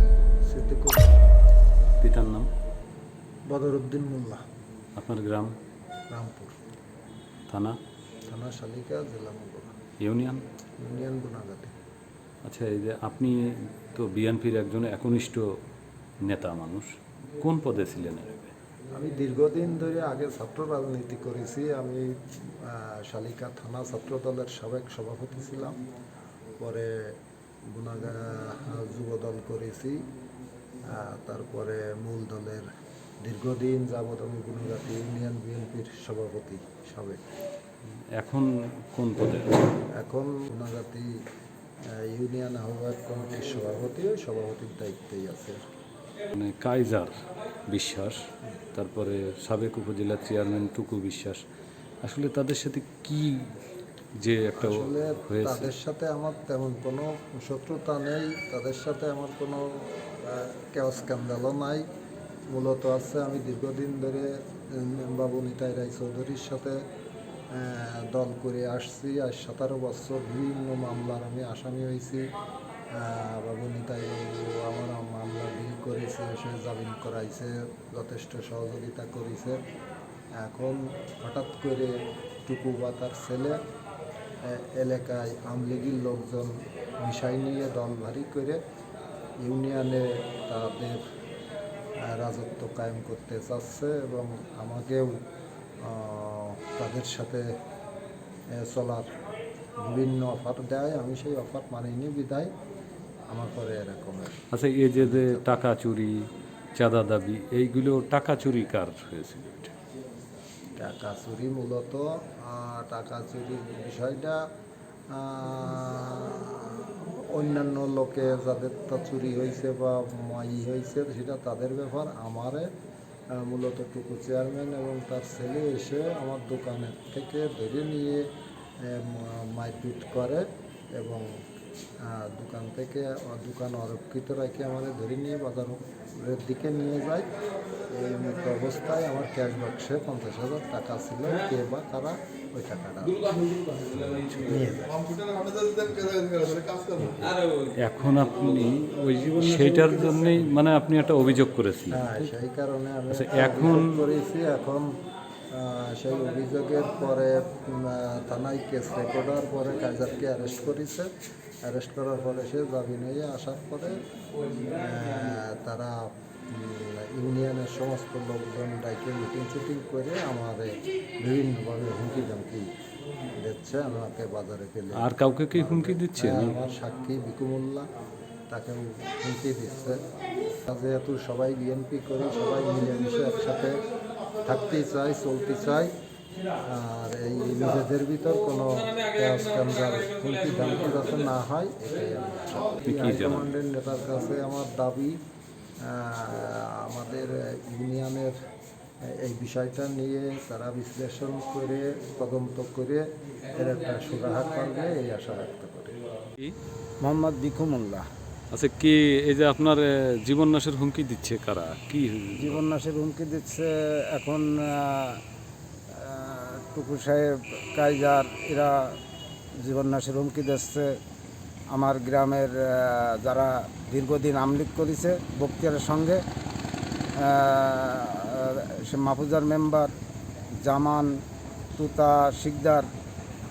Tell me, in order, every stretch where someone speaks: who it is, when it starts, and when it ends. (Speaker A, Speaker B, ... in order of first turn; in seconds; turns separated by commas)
Speaker A: 0.4-1.3, Speaker B: 2.0-2.5, Speaker A: 3.5-4.4, Speaker B: 5.0-5.5, Speaker A: 6.1-6.5, Speaker B: 7.5-7.8, Speaker A: 8.3-9.7, Speaker B: 10.0-10.4, Speaker A: 10.8-11.7, Speaker B: 12.4-15.6, Speaker B: 16.2-18.5, Speaker A: 18.9-25.8, Speaker A: 26.6-27.1, Speaker A: 27.7-30.1, Speaker A: 30.9-32.7, Speaker A: 33.2-37.2, Speaker B: 38.2-39.7, Speaker A: 40.0-41.1, Speaker A: 41.9-45.6, Speaker B: 46.3-47.1, Speaker B: 47.7-51.4, Speaker B: 52.0-53.5, Speaker B: 54.2-55.7, Speaker A: 54.6-61.9, Speaker A: 62.5-66.8, Speaker A: 67.5-72.3, Speaker A: 72.9-79.6, Speaker A: 80.3-81.9, Speaker A: 82.5-83.6, Speaker A: 84.4-88.6, Speaker A: 89.4-91.0, Speaker A: 92.0-95.2, Speaker A: 95.8-97.5, Speaker A: 98.5-99.2, Speaker A: 99.8-102.5, Speaker A: 103.3-104.4, Speaker B: 104.5-109.7, Speaker A: 105.0-105.5, Speaker A: 110.8-114.4, Speaker A: 115.1-122.7, Speaker A: 123.3-128.3, Speaker A: 128.8-131.2, Speaker A: 132.0-137.3, Speaker A: 137.9-143.4, Speaker B: 143.7-144.6, Speaker A: 144.3-145.2, Speaker B: 145.9-146.4, Speaker B: 147.0-152.3, Speaker A: 151.9-155.0, Speaker B: 153.1-154.0, Speaker A: 155.5-161.1, Speaker A: 161.7-164.0, Speaker A: 164.7-172.7, Speaker A: 173.4-177.9, Speaker B: 175.0-176.6, Speaker A: 178.5-180.0, Speaker A: 180.7-183.8, Speaker A: 184.4-185.9, Speaker A: 186.7-195.2, Speaker B: 192.8-193.5, Speaker A: 195.8-198.4, Speaker A: 199.0-206.0, Speaker C: 207.0-208.1, Speaker B: 208.5-212.6, Speaker C: 212.4-215.2, Speaker C: 215.9-219.0, Speaker C: 219.6-221.0, Speaker C: 221.7-226.2, Speaker C: 227.2-229.9, Speaker C: 230.6-231.1, Speaker C: 231.8-232.9